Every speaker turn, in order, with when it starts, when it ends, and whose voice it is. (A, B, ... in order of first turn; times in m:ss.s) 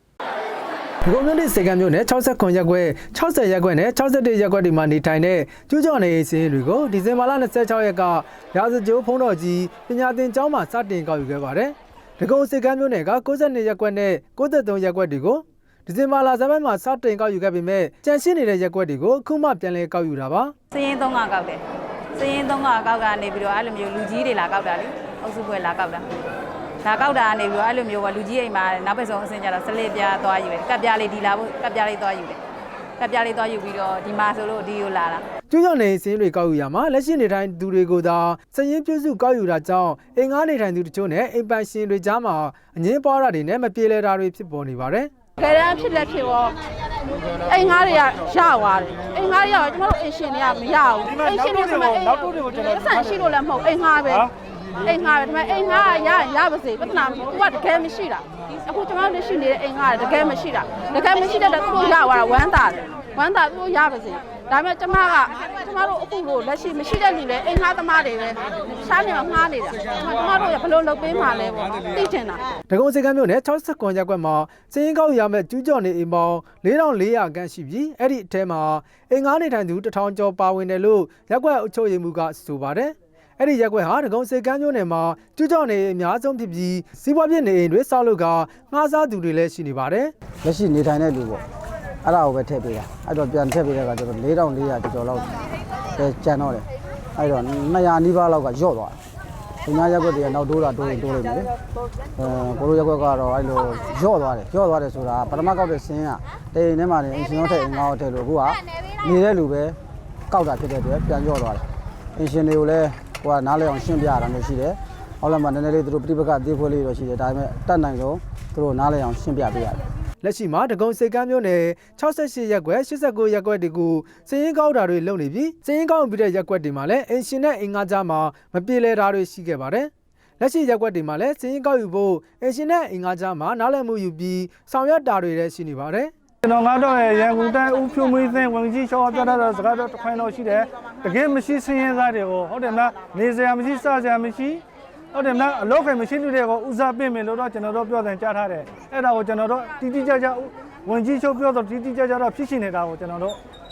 0:01.0-0:20.5 A
0:20.7-0:21.6 B
0:22.2-0:26.0 B
0:26.8-0:32.4 B
0:33.0-0:35.3 B
0:35.5-0:45.1 A
0:45.4-0:46.6 C
0:47.4-0:54.2 C
0:51.0-0:53.2 D
0:54.1-0:54.3 D
0:54.8-1:12.4 C
1:12.7-1:30.1 A
1:30.4-1:31.4 E
1:32.0-1:35.3 E
1:36.0-1:39.0 E
1:39.6-1:41.5 E
1:42.2-1:49.8 E
1:50.3-1:51.6 E
1:52.2-1:59.8 E
2:00.2-2:16.1 A
2:16.4-2:33.4 D